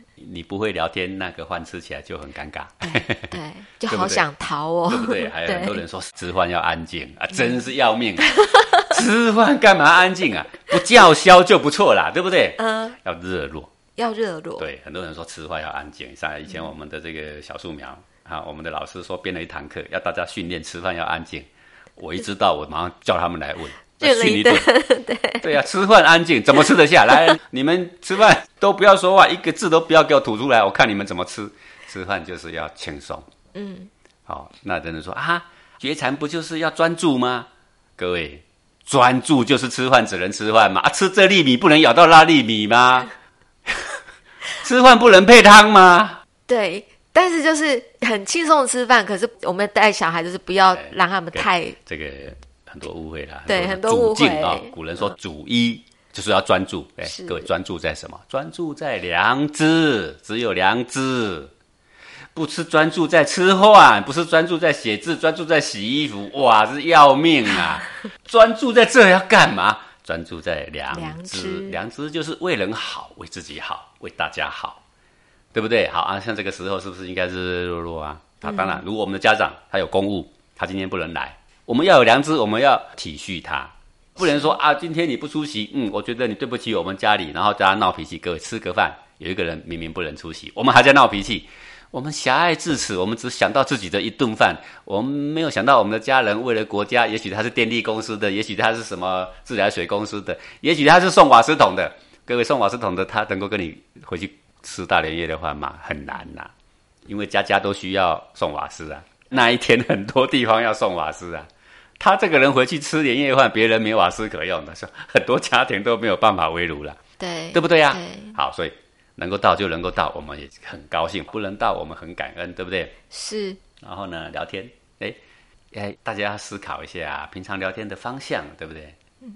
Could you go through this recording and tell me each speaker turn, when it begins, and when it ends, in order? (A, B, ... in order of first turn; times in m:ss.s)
0:00.2-0:04.2 A
0:02.8-0:05.8 B
0:04.9-0:13.7 A
0:08.4-0:08.8 B
0:12.6-0:13.0 B
0:14.0-0:14.6 B
0:14.6-0:24.7 A
0:24.0-0:25.6 B
0:25.4-0:33.2 A
0:33.5-0:33.9 B
0:34.3-0:43.1 A
0:43.6-0:44.0 A
0:44.6-0:46.2 A
0:46.5-0:51.8 B
0:50.7-1:01.5 A
0:53.5-0:55.1 B
0:57.0-0:57.5 B
1:02.3-1:14.8 A
1:10.9-1:11.8 B
1:15.5-1:46.5 A
1:18.4-1:18.8 B
1:24.2-1:24.5 B
1:47.0-1:57.0 A
1:57.2-1:58.4 B
1:57.5-2:02.9 A
2:03.1-2:03.6 B
2:03.8-2:05.2 A
2:05.7-2:09.0 A